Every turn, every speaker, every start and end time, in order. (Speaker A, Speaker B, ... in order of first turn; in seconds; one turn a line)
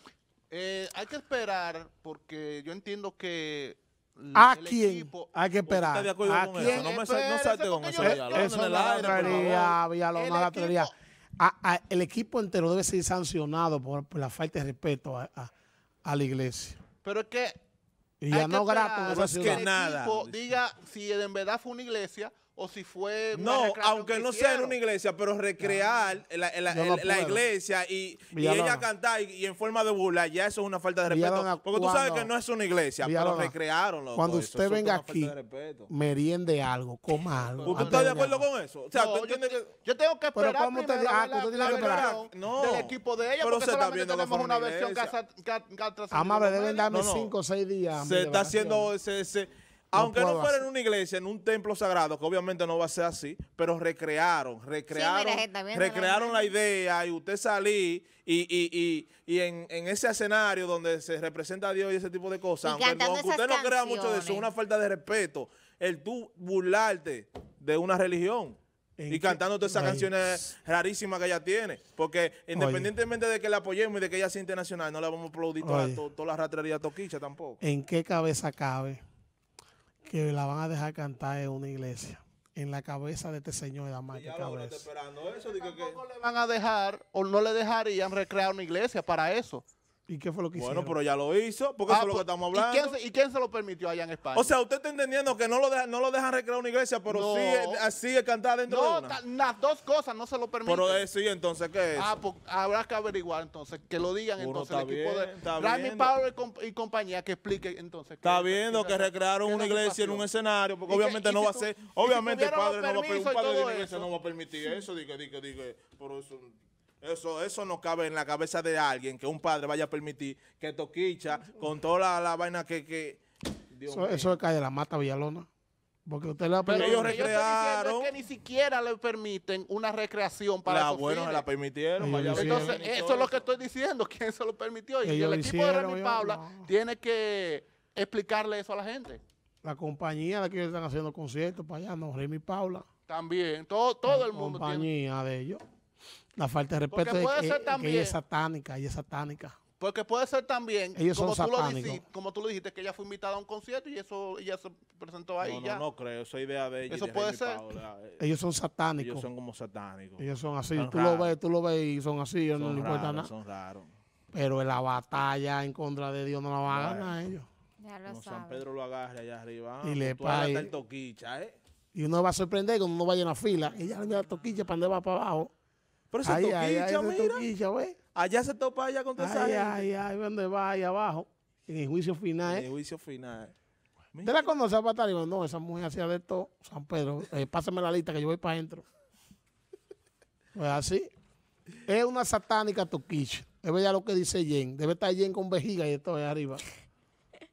Speaker A: 0.5-5.3
Speaker B: 4.3-7.0
Speaker C: 5.6-9.8
Speaker A: 6.5-10.9
Speaker B: 8.0-15.5
Speaker B: 16.0-16.8
Speaker A: 17.0-17.6
Speaker B: 18.2-19.7
Speaker A: 18.3-24.8
Speaker C: 19.1-20.4
Speaker C: 23.3-35.9
Speaker B: 26.7-27.5
Speaker B: 28.3-28.9
Speaker B: 31.1-32.3
Speaker B: 33.0-33.6
Speaker B: 34.1-35.4
Speaker B: 35.9-38.5
Speaker A: 37.5-38.2
Speaker C: 37.6-39.7
Speaker A: 38.9-46.9
Speaker B: 40.4-42.1
Speaker C: 41.6-45.1
Speaker B: 46.1-48.9
Speaker C: 46.9-47.3
Speaker C: 47.9-68.6
Speaker B: 49.9-50.6
Speaker D: 54.9-56.5
Speaker D: 62.6-64.5
Speaker B: 69.0-70.4
Speaker C: 69.1-77.6
Speaker B: 72.5-72.9
Speaker B: 75.6-76.0
Speaker B: 77.6-79.0
Speaker B: 80.1-84.9
Speaker C: 84.1-86.0
Speaker A: 85.5-89.6
Speaker B: 90.1-91.0
Speaker C: 90.5-92.9
Speaker A: 91.9-94.5
Speaker C: 94.3-99.2
Speaker A: 97.1-97.8
Speaker A: 98.7-101.1
Speaker C: 100.7-102.1
Speaker A: 102.0-110.3
Speaker C: 104.4-106.1
Speaker C: 108.2-124.4
Speaker A: 110.9-114.1
Speaker B: 123.9-125.5
Speaker B: 126.1-127.4
Speaker C: 126.7-128.1
Speaker A: 126.7-131.5
Speaker C: 130.7-133.5
Speaker B: 132.0-132.8
Speaker A: 132.3-139.2
Speaker B: 135.0-136.7
Speaker B: 139.6-142.8
Speaker A: 143.1-144.9
Speaker B: 144.1-145.6
Speaker B: 146.4-149.6
Speaker A: 146.9-148.2
Speaker A: 149.8-155.8
Speaker B: 151.0-152.0
Speaker C: 155.4-158.2
Speaker A: 156.9-157.6
Speaker B: 158.2-159.3
Speaker C: 159.0-161.4
Speaker B: 160.2-163.3
Speaker C: 162.6-163.9
Speaker B: 164.3-167.5
Speaker C: 166.7-167.1
Speaker D: 167.8-168.6
Speaker C: 168.1-171.6
Speaker B: 169.8-170.7
Speaker B: 171.9-175.5
Speaker C: 176.1-177.5
Speaker B: 176.2-178.0
Speaker C: 178.1-179.9
Speaker B: 179.2-182.7
Speaker C: 182.4-183.5
Speaker C: 184.1-184.4
Speaker B: 184.2-188.8
Speaker B: 190.6-191.1
Speaker B: 191.9-196.7